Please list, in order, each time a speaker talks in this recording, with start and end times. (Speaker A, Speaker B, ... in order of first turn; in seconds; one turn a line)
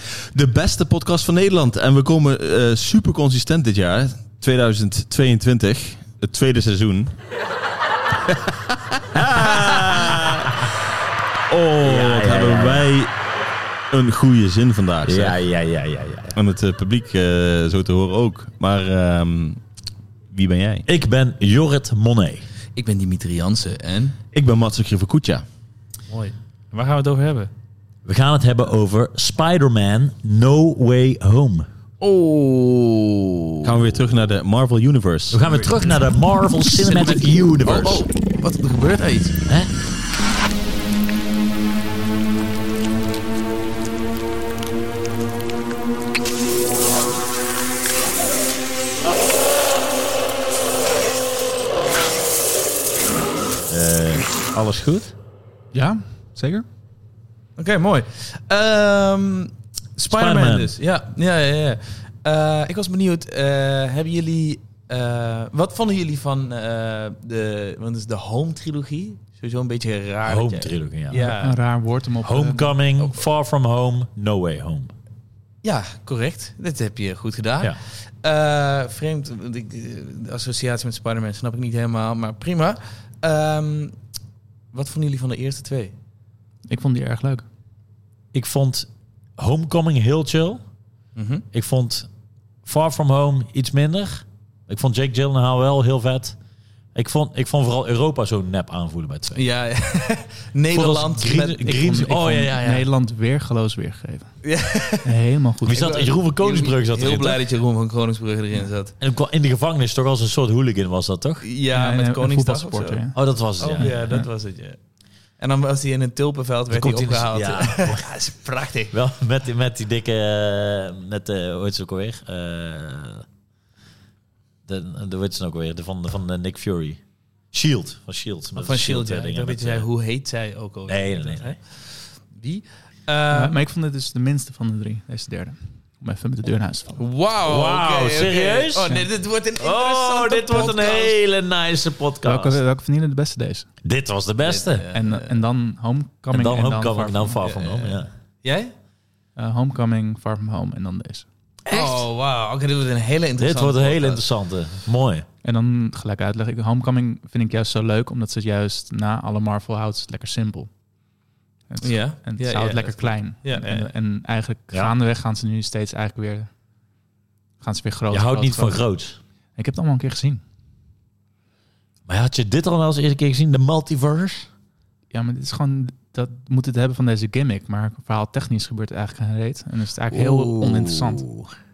Speaker A: 0.3-7.1
Speaker A: 9.1-10.5
Speaker B: 9.1-10.7
Speaker A: 11.5-13.1
Speaker B: 11.8-12.9
Speaker A: 13.9-15.4
Speaker B: 15.1-16.4
Speaker A: 16.4-19.6
Speaker A: 20.3-20.9
Speaker B: 20.9-22.4
Speaker C: 22.8-24.2
Speaker A: 24.3-25.4
Speaker C: 26.1-27.5
Speaker B: 28.1-31.7
Speaker A: 32.0-35.4
Speaker B: 35.3-38.1
Speaker C: 36.7-39.4
Speaker B: 39.5-39.7
Speaker B: 53.7-55.1
Speaker D: 55.7-56.7
Speaker C: 57.6-71.6
Speaker B: 60.1-60.8
Speaker B: 70.2-71.3
Speaker D: 71.2-72.7
Speaker B: 72.2-74.9
Speaker C: 75.6-84.0
Speaker C: 84.7-85.9
Speaker D: 86.7-87.5
Speaker B: 88.3-90.6
Speaker C: 91.2-91.5
Speaker B: 91.5-92.1
Speaker B: 92.7-96.4
Speaker B: 97.0-99.4
Speaker C: 99.3-102.9
Speaker B: 100.7-102.6
Speaker D: 101.7-104.3
Speaker C: 104.4-109.0
Speaker D: 105.0-105.9
Speaker B: 105.7-107.4
Speaker B: 109.0-111.5
Speaker C: 111.4-113.1
Speaker D: 111.7-113.2
Speaker B: 113.2-114.0
Speaker C: 113.6-114.8
Speaker D: 113.8-114.3
Speaker C: 115.4-119.0
Speaker B: 116.7-118.1
Speaker B: 118.9-123.2
Speaker B: 124.7-127.0
Speaker B: 127.5-129.9
Speaker C: 128.6-133.6
Speaker B: 130.9-131.5
Speaker D: 133.3-137.0
Speaker C: 137.0-141.2
Speaker B: 137.5-138.9
Speaker B: 139.6-142.6
Speaker D: 142.2-143.7
Speaker B: 143.8-144.9
Speaker C: 144.4-145.4
Speaker D: 144.9-147.4
Speaker B: 146.3-148.1
Speaker C: 147.4-148.7
Speaker D: 149.4-151.3
Speaker B: 151.7-152.1
Speaker C: 151.7-154.2
Speaker B: 153.4-155.3
Speaker D: 155.4-160.7
Speaker D: 161.7-166.5
Speaker C: 161.8-163.8
Speaker D: 167.6-168.8
Speaker B: 168.1-169.2
Speaker D: 169.6-170.4
Speaker B: 172.1-174.5
Speaker D: 175.1-181.2
Speaker B: 180.1-181.5